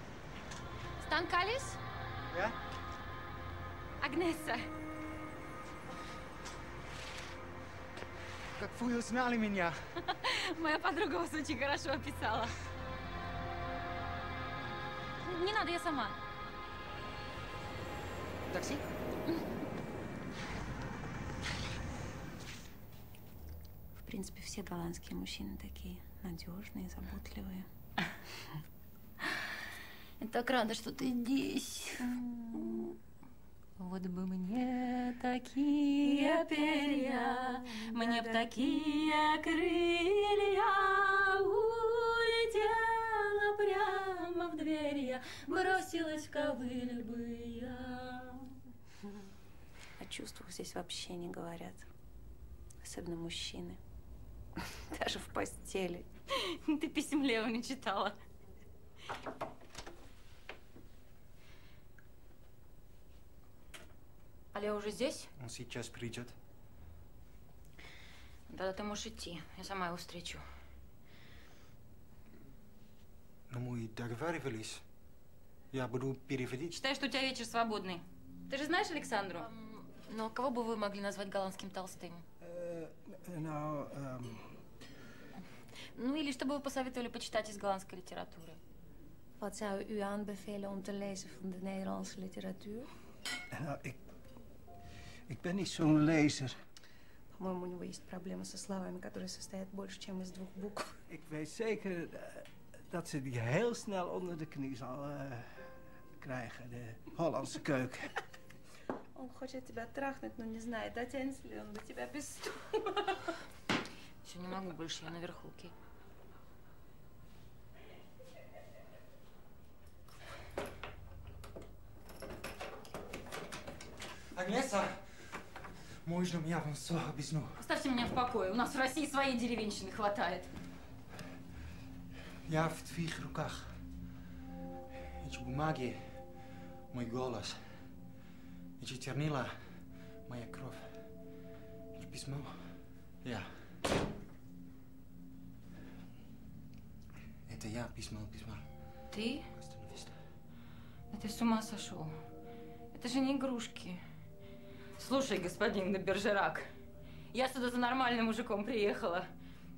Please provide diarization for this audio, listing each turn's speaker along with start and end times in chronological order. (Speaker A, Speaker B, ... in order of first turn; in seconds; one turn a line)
Speaker A: 1.0-1.8
Speaker B: 2.3-2.6
Speaker A: 4.0-4.6
Speaker B: 8.6-9.8
Speaker A: 10.0-12.6
Speaker A: 15.2-16.2
Speaker B: 18.5-18.8
Speaker C: 24.0-27.7
Speaker A: 30.2-33.0
Speaker C: 32.0-32.7
Speaker A: 33.8-48.5
Speaker C: 50.0-51.9
Speaker C: 52.8-53.8
Speaker C: 54.7-56.0
Speaker A: 56.3-58.1
Speaker A: 64.5-65.3
Speaker B: 65.4-66.3
Speaker A: 68.5-70.4
Speaker B: 73.5-74.8
Speaker B: 75.7-76.7
Speaker A: 76.7-82.2
Speaker D: 82.4-84.5
Speaker A: 85.9-88.6
Speaker C: 89.4-92.9
Speaker D: 93.5-94.0
Speaker D: 95.3-96.6
Speaker C: 97.3-101.0
Speaker D: 101.1-105.6
Speaker D: 106.2-108.1
Speaker C: 109.1-113.2
Speaker A: 114.2-115.7
Speaker B: 124.3-125.2
Speaker B: 126.0-127.6
Speaker A: 127.6-130.5
Speaker B: 132.4-133.8
Speaker B: 135.2-136.1
Speaker B: 136.9-137.6
Speaker B: 138.8-139.5
Speaker B: 140.2-141.0
Speaker B: 141.9-142.7
Speaker B: 143.2-143.5
Speaker B: 147.5-148.6
Speaker A: 149.1-149.5
Speaker B: 149.5-150.2
Speaker A: 151.1-152.1
Speaker A: 152.9-154.0
Speaker A: 155.0-156.7
Speaker A: 157.3-159.3